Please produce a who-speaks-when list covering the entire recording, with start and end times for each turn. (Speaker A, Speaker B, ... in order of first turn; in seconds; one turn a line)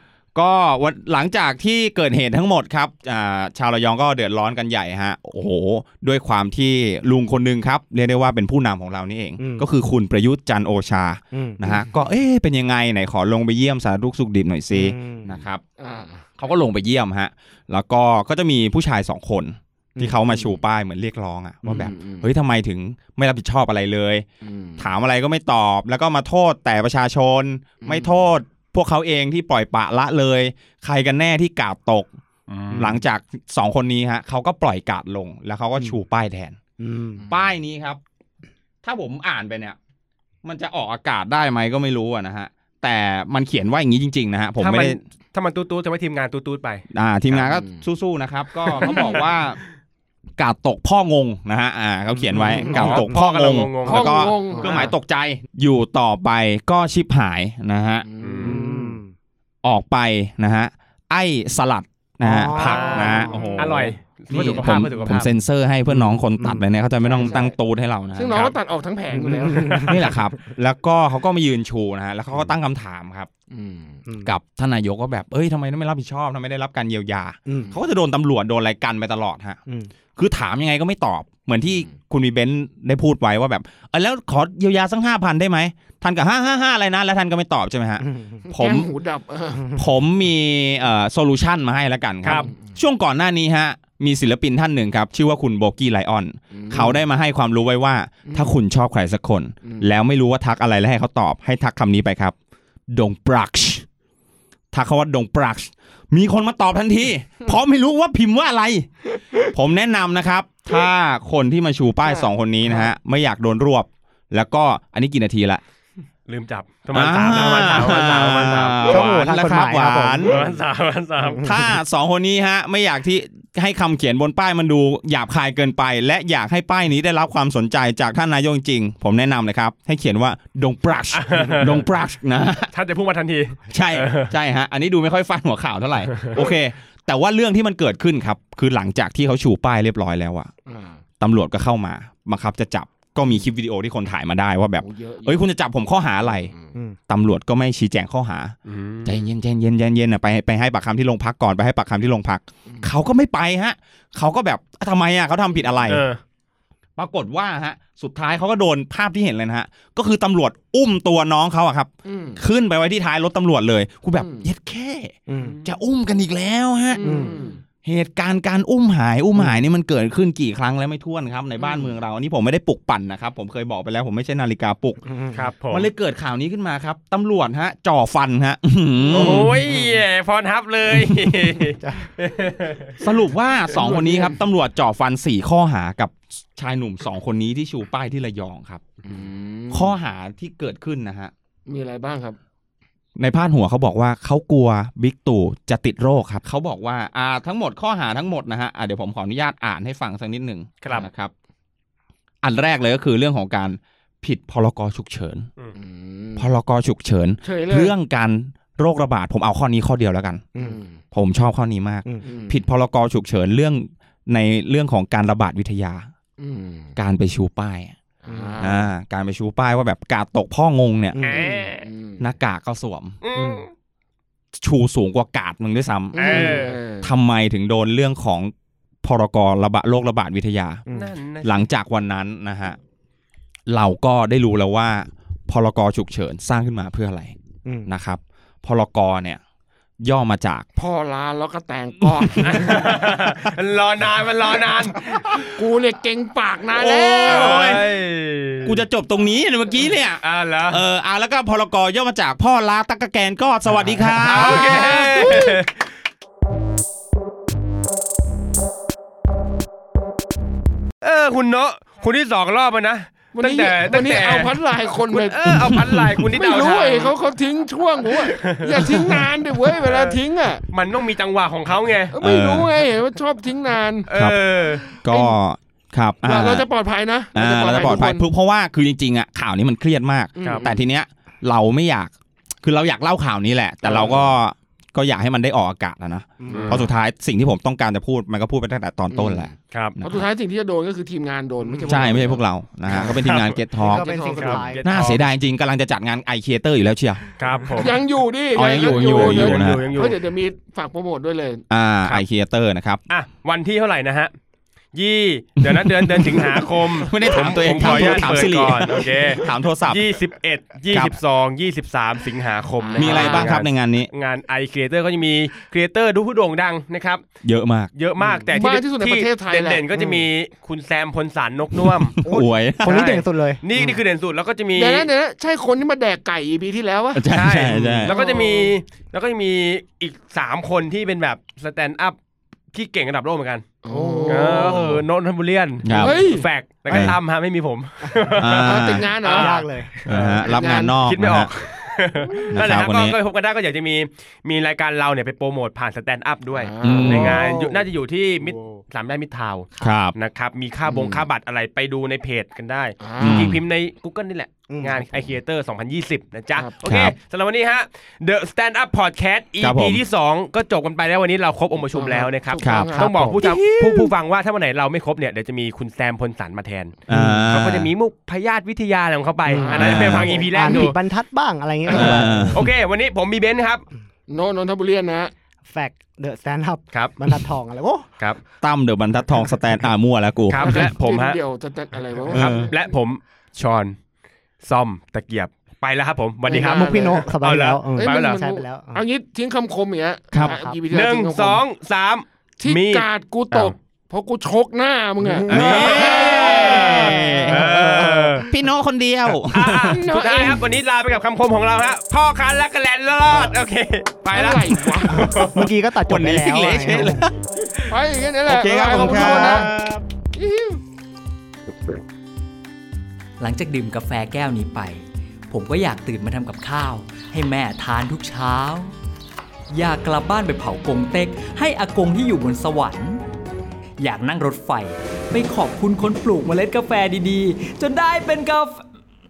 Speaker A: 0.3-15.6
Speaker B: 9.4-9.7
Speaker B: 11.3-11.6
Speaker B: 14.7-15.4
Speaker C: 15.8-16.2
Speaker A: 16.4-24.2
Speaker B: 19.9-20.2
Speaker B: 21.6-21.9
Speaker C: 21.7-22.3
Speaker C: 24.4-24.9
Speaker A: 24.8-32.1
Speaker C: 27.8-28.2
Speaker D: 32.5-33.0
Speaker B: 32.7-33.0
Speaker A: 32.7-36.6
Speaker B: 36.8-37.2
Speaker A: 37.3-38.0
Speaker A: 38.8-39.8
Speaker A: 40.4-45.0
Speaker D: 44.6-46.8
Speaker A: 46.9-49.6
Speaker C: 47.3-47.8
Speaker C: 48.8-49.2
Speaker D: 48.8-49.1
Speaker A: 50.4-58.0
Speaker B: 52.3-53.2
Speaker D: 52.6-54.7
Speaker C: 53.9-54.9
Speaker C: 58.0-59.0
Speaker D: 58.2-58.6
Speaker B: 58.4-59.1
Speaker A: 59.6-68.5
Speaker B: 62.2-63.8
Speaker D: 62.5-65.3
Speaker C: 63.3-63.6
Speaker B: 64.3-65.2
Speaker B: 65.9-66.6
Speaker C: 67.0-67.5
Speaker C: 68.1-69.9
Speaker B: 69.2-70.3
Speaker A: 69.8-73.3
Speaker C: 73.5-74.0
Speaker A: 74.2-79.6
Speaker B: 77.5-77.8
Speaker B: 79.7-79.9
Speaker A: 80.2-88.9
Speaker B: 88.0-88.4
Speaker C: 88.5-89.7
Speaker A: 89.7-102.3
Speaker D: 92.2-92.5
Speaker C: 96.5-97.0
Speaker C: 98.2-98.5
Speaker A: 102.9-103.8
Speaker A: 104.7-115.6
Speaker C: 112.0-112.3
Speaker D: 116.3-119.1
Speaker A: 116.9-120.4
Speaker B: 118.8-120.4
Speaker D: 120.3-121.4
Speaker B: 121.3-121.7
Speaker A: 121.4-132.7
Speaker D: 131.1-131.8
Speaker D: 132.7-134.3
Speaker A: 133.7-140.5
Speaker D: 136.1-136.4
Speaker C: 140.7-141.0
Speaker A: 141.2-146.5
Speaker C: 144.8-145.5
Speaker C: 146.5-146.7
Speaker A: 147.1-148.5
Speaker D: 148.7-149.1
Speaker A: 149.0-156.1
Speaker D: 155.9-156.2
Speaker A: 157.0-167.3
Speaker C: 162.0-162.4
Speaker C: 164.2-164.5
Speaker B: 165.3-165.6
Speaker D: 165.3-165.7
Speaker C: 166.9-167.6
Speaker B: 167.0-167.3
Speaker A: 167.8-175.0
Speaker B: 175.1-175.4
Speaker D: 175.3-175.9
Speaker A: 175.7-179.6
Speaker D: 179.1-183.0
Speaker B: 179.1-179.9
Speaker A: 180.9-181.3
Speaker B: 181.8-182.1
Speaker A: 183.0-188.8
Speaker C: 183.7-184.4
Speaker C: 189.0-189.9
Speaker A: 189.7-191.3
Speaker C: 191.7-192.4
Speaker A: 193.2-201.3
Speaker D: 200.8-201.1
Speaker A: 202.4-205.5
Speaker C: 205.7-206.5
Speaker A: 206.4-210.4
Speaker C: 207.4-207.9
Speaker C: 210.6-211.0
Speaker A: 211.1-216.1
Speaker C: 212.2-212.6
Speaker C: 216.4-216.9
Speaker A: 216.9-217.9
Speaker C: 218.2-218.9
Speaker B: 218.3-218.7
Speaker A: 218.6-221.2
Speaker B: 221.1-221.5
Speaker D: 221.2-221.9
Speaker C: 221.3-222.2
Speaker A: 222.2-223.2
Speaker D: 223.2-223.7
Speaker B: 223.3-223.6
Speaker A: 224.6-226.5
Speaker C: 226.1-227.1
Speaker D: 226.2-226.8
Speaker B: 226.3-226.6
Speaker A: 227.0-228.5
Speaker A: 229.0-230.8
Speaker D: 230.9-231.7
Speaker A: 231.4-232.8
Speaker A: 233.7-237.3
Speaker A: 237.8-239.4
Speaker A: 240.0-240.7
Speaker C: 240.8-243.0
Speaker D: 242.4-245.5
Speaker C: 245.4-247.7
Speaker A: 246.8-247.9
Speaker D: 247.2-248.8
Speaker A: 248.6-255.4
Speaker D: 250.2-250.8
Speaker D: 254.2-255.8
Speaker C: 254.3-255.5
Speaker D: 261.0-264.6
Speaker C: 263.3-265.4
Speaker D: 265.1-267.1
Speaker A: 265.5-266.3
Speaker C: 266.3-270.6
Speaker D: 268.3-270.2
Speaker D: 270.7-272.1
Speaker C: 272.1-274.1
Speaker A: 272.2-272.7
Speaker D: 274.1-274.8
Speaker A: 274.1-276.6
Speaker C: 274.8-275.4
Speaker C: 276.2-278.2
Speaker A: 277.3-290.2
Speaker C: 280.4-280.8
Speaker C: 283.8-284.3
Speaker B: 286.4-286.9
Speaker C: 286.5-286.8
Speaker C: 289.1-292.4
Speaker D: 289.7-290.0
Speaker B: 291.6-292.2
Speaker A: 291.9-294.1
Speaker D: 293.1-293.6
Speaker B: 293.8-294.8
Speaker C: 293.9-294.7
Speaker D: 294.3-295.2
Speaker A: 294.8-297.2
Speaker D: 297.4-298.0
Speaker C: 297.7-301.6
Speaker A: 298.5-299.9
Speaker D: 298.6-300.2
Speaker A: 301.7-303.0
Speaker D: 303.1-304.3
Speaker D: 304.9-317.2
Speaker A: 305.6-310.0
Speaker B: 307.3-308.6
Speaker C: 312.8-313.6
Speaker A: 313.0-314.1
Speaker A: 317.4-317.9
Speaker D: 317.9-322.3
Speaker B: 318.2-318.5
Speaker C: 318.5-319.9
Speaker A: 322.1-323.0
Speaker B: 322.2-324.0
Speaker D: 322.8-325.1
Speaker C: 324.7-327.2
Speaker A: 327.1-328.1
Speaker D: 327.3-332.1
Speaker C: 328.0-328.7
Speaker D: 332.7-333.6
Speaker C: 333.8-334.9
Speaker B: 333.9-335.0
Speaker D: 334.3-366.9
Speaker A: 335.8-336.2
Speaker C: 336.0-336.4
Speaker A: 336.9-337.2
Speaker A: 338.4-339.1
Speaker C: 338.4-339.6
Speaker B: 339.2-340.1
Speaker A: 340.1-341.5
Speaker C: 340.4-341.0
Speaker A: 342.5-343.2
Speaker C: 346.5-347.5
Speaker A: 346.8-347.4
Speaker B: 347.1-347.8
Speaker B: 348.4-348.8
Speaker A: 349.8-350.1
Speaker C: 350.9-351.2
Speaker C: 353.0-353.5
Speaker A: 353.2-353.6
Speaker B: 354.7-355.2
Speaker A: 356.8-357.1
Speaker A: 359.6-360.0
Speaker C: 361.9-363.6
Speaker A: 362.6-362.9
Speaker B: 363.0-364.1
Speaker A: 367.1-367.9
Speaker B: 367.1-367.4
Speaker D: 367.5-371.0
Speaker B: 369.5-372.6
Speaker C: 369.6-370.9
Speaker A: 369.8-370.3
Speaker A: 371.9-372.7
Speaker C: 371.9-372.2
Speaker D: 371.9-373.8
Speaker C: 374.3-375.3
Speaker B: 375.7-378.1
Speaker A: 378.6-380.9
Speaker D: 380.5-381.4
Speaker C: 380.6-382.7
Speaker D: 382.3-383.9
Speaker A: 382.3-382.7
Speaker D: 384.6-388.4
Speaker C: 386.4-387.2
Speaker B: 386.5-389.0
Speaker C: 388.0-391.6
Speaker A: 390.3-390.6
Speaker B: 390.4-390.8
Speaker D: 390.9-393.7
Speaker C: 392.6-397.2
Speaker B: 395.2-398.5
Speaker D: 395.5-398.4
Speaker A: 395.5-397.8
Speaker A: 398.4-400.0
Speaker D: 399.4-405.6
Speaker C: 399.9-400.6
Speaker C: 404.3-405.4
Speaker B: 405.1-407.2
Speaker A: 406.0-407.9
Speaker C: 407.9-409.7
Speaker A: 408.4-410.0
Speaker B: 408.9-409.7
Speaker C: 410.3-410.8
Speaker E: 413.4-418.9
Speaker E: 419.7-423.2
Speaker E: 424.0-428.9